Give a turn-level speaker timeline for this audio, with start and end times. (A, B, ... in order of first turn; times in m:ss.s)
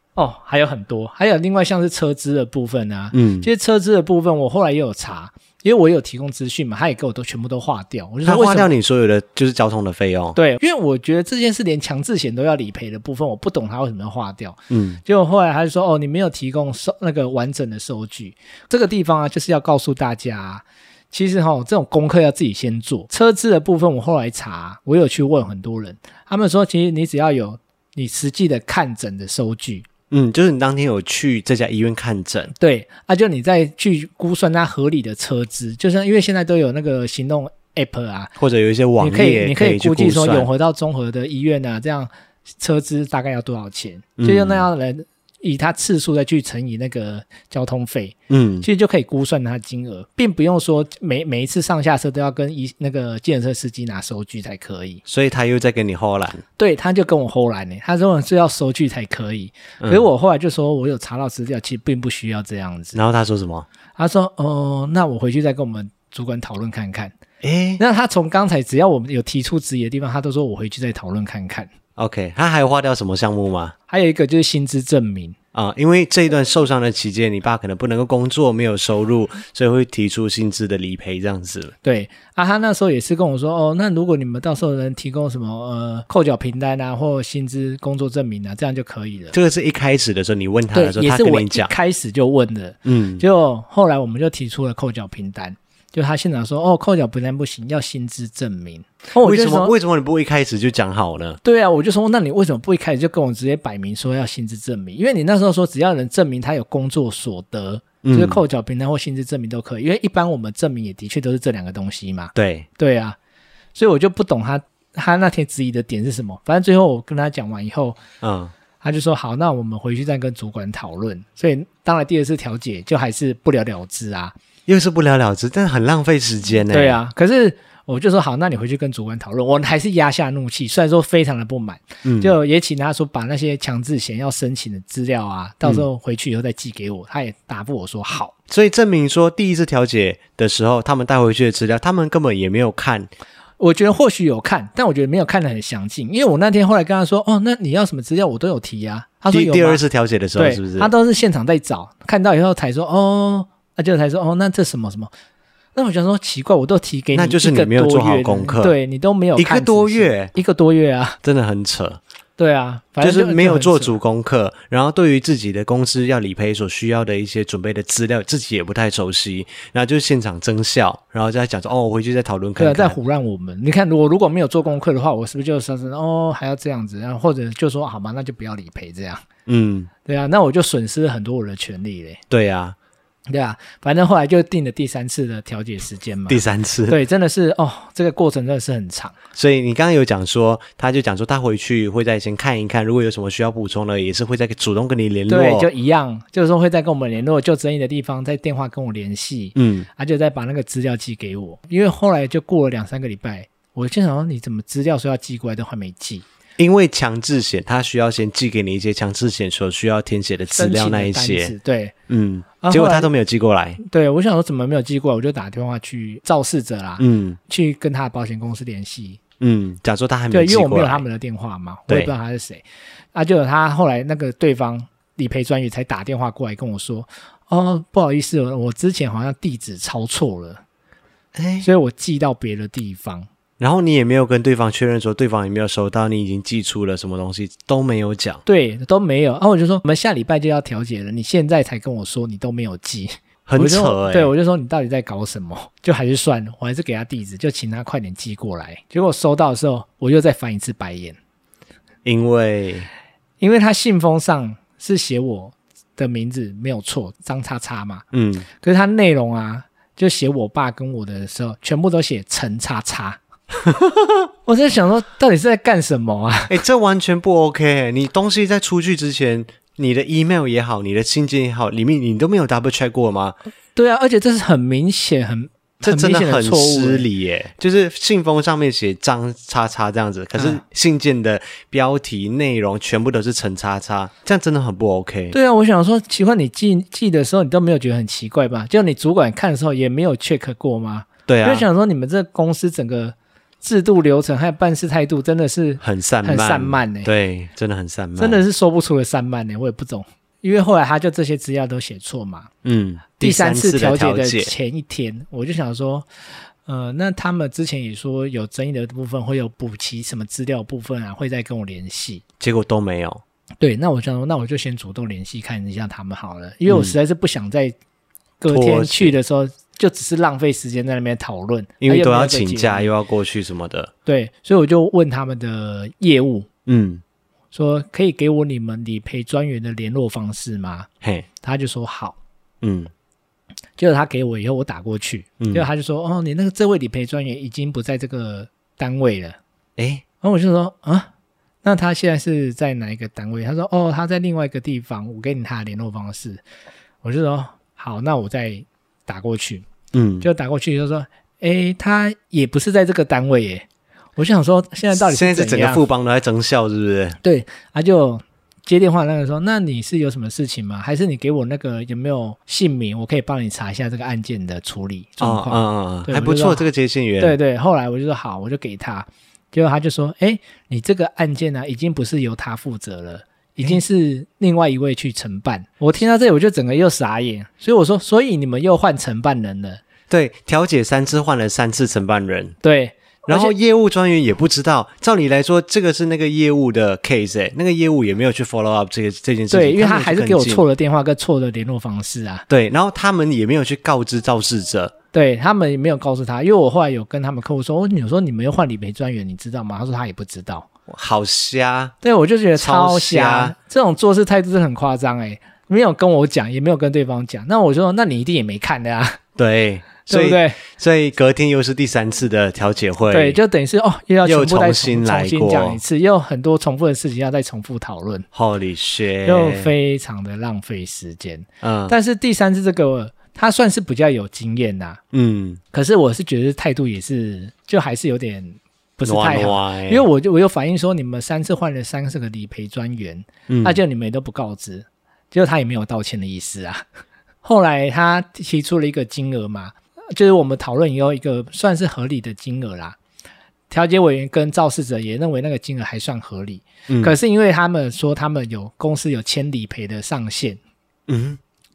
0:00.2-0:08.7 A
0:03.1-0:03.5 B
0:08.2-0:10.4 B
0:10.4-0:29.9 A
0:14.7-0:15.0 B
0:30.1-0:32.5 B
0:32.5-0:38.3 A
0:38.4-0:40.5 B
0:39.0-0:55.0 A
0:44.2-0:44.6 B
0:48.3-0:48.7 B
0:55.0-0:56.4 B
0:56.6-1:03.0 A
1:02.9-1:03.7 B
1:04.0-1:07.2 A
1:07.4-1:07.8 B
1:07.8-1:11.7 A
1:12.0-1:13.7 B
1:13.9-1:15.4 A
1:15.5-1:21.7 B
1:21.8-1:29.3 A
1:29.3-1:31.7 B
1:30.7-1:39.7 A
1:32.8-1:33.2 B
1:39.2-1:41.4 B
1:41.4-1:53.2 A
1:48.0-1:48.4 B
1:52.3-1:52.7 B
1:53.7-1:58.0 A
1:58.2-1:58.5 B
1:58.8-2:04.3 A
2:04.7-2:07.0 B
2:06.7-2:18.3 A
2:12.0-2:12.3 B
2:18.5-2:23.1 B
2:23.6-2:29.8 A
2:29.3-2:30.9 B
2:30.4-2:35.1 A
2:35.7-2:41.2 A
2:37.1-2:38.7 B
2:39.4-2:40.3 B
2:41.2-2:42.0 B
2:42.4-2:44.0 A
2:43.0-2:53.0 B
2:52.6-2:59.2 A
2:59.4-2:59.9 B
3:00.0-3:02.2 A
3:02.3-3:02.8 B
3:03.3-3:09.1 A
3:06.3-3:07.0 B
3:09.3-3:15.7 B
3:15.3-3:26.2 A
3:19.5-3:19.9 B
3:26.6-3:31.5 B
3:30.5-3:31.9 A
3:32.1-3:33.8 B
3:32.6-3:33.1 A
3:33.8-3:39.2 A
3:37.0-3:37.4 B
3:39.4-3:41.0 B
3:40.3-3:50.6 A
3:51.3-3:51.7 B
3:51.6-3:53.3 A
3:53.6-3:58.4 B
3:58.4-4:11.2 A
4:03.4-4:04.3 B
4:12.0-4:12.9 B
4:13.4-4:18.0 A
4:18.1-4:18.5 B
4:18.6-4:23.2 A
4:23.6-4:24.0 B
4:24.4-4:26.6 A
4:26.5-4:33.4 B
4:33.8-4:37.0 A
4:35.8-4:45.4 B
4:45.3-4:57.1 A
4:51.3-4:51.6 B
4:55.8-4:58.4 B
4:58.2-5:02.5 A
5:02.6-5:04.5 B
5:03.2-5:06.1 A
5:06.6-5:12.2 A
5:12.4-5:13.2 B
5:13.6-5:17.7 A
5:16.7-5:16.9 B
5:18.4-5:22.9 A
5:18.5-5:19.2 B
5:21.8-5:23.9 B
5:24.0-5:26.5 A
5:26.6-5:27.0 B
5:27.5-5:30.9 A
5:31.4-5:32.2 A
5:32.6-5:32.9 B
5:33.8-5:39.4 A
5:35.4-5:35.6 B
5:39.8-5:40.0 B
5:40.2-5:41.1 A
5:41.6-5:46.4 A
5:47.0-5:49.6 A
5:49.9-5:50.3 B
5:50.2-5:53.6 A
5:54.2-5:55.8 A
5:54.9-5:57.2 B
5:57.2-6:06.6 A
6:05.2-6:07.4 B
6:07.2-6:19.8 A
6:20.1-6:22.6 B
6:22.6-6:23.5 A
6:23.3-6:30.6 B
6:29.5-6:32.5 A
6:32.5-6:34.9 B
6:35.1-6:40.7 A
6:40.9-6:41.9 B
6:42.0-6:49.2 A
6:42.6-6:43.5 B
6:49.4-6:53.4 B
6:50.1-6:50.6 A
6:53.1-6:58.2 A
6:54.2-6:55.8 B
6:58.3-6:59.7 B
6:59.2-7:05.0 A
7:01.6-7:01.9 B
7:05.1-7:05.6 B
7:05.7-7:16.8 A
7:09.0-7:10.0 B
7:13.5-7:13.8 B
7:17.4-7:23.0 A
7:23.7-7:30.6 A
7:26.9-7:27.1 B
7:31.1-7:31.4 B